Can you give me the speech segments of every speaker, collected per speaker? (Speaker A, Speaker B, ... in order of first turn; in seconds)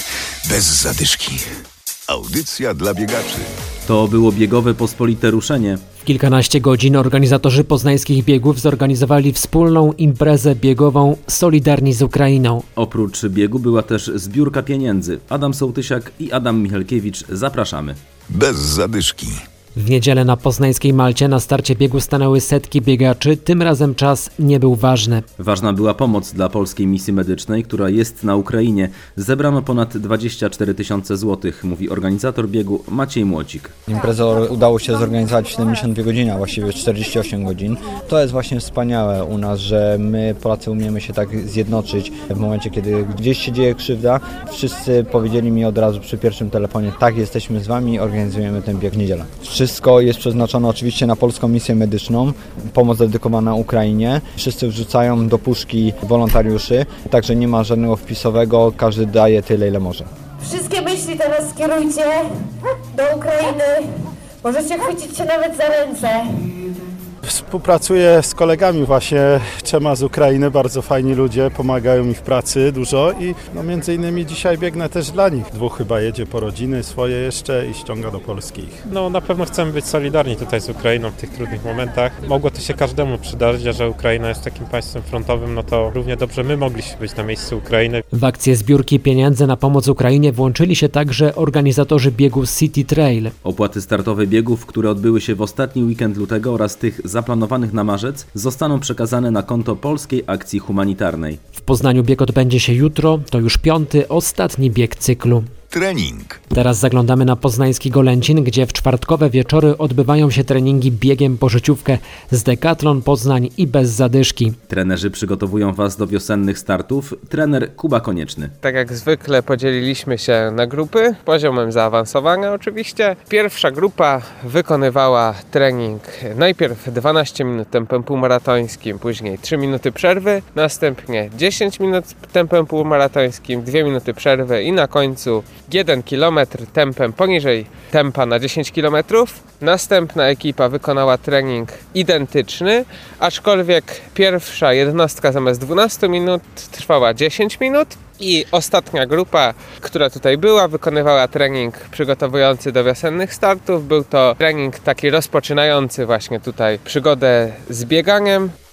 Speaker A: 0.4-1.5, 2.1-3.5, 18.3-19.4, 105.7-106.4
Speaker B: 3.9-5.8, 12.8-18.0, 25.4-33.7, 93.4-101.4, 114.7-118.5
Speaker C: 6.0-12.6, 19.7-25.2, 88.1-93.3, 101.5-105.4, 106.5-114.6
Speaker D: 33.9-60.0
Speaker E: 60.4-62.3, 62.9-66.5
Speaker F: 67.2-78.8
Speaker G: 78.9-88.0
Speaker H: 118.6-158.5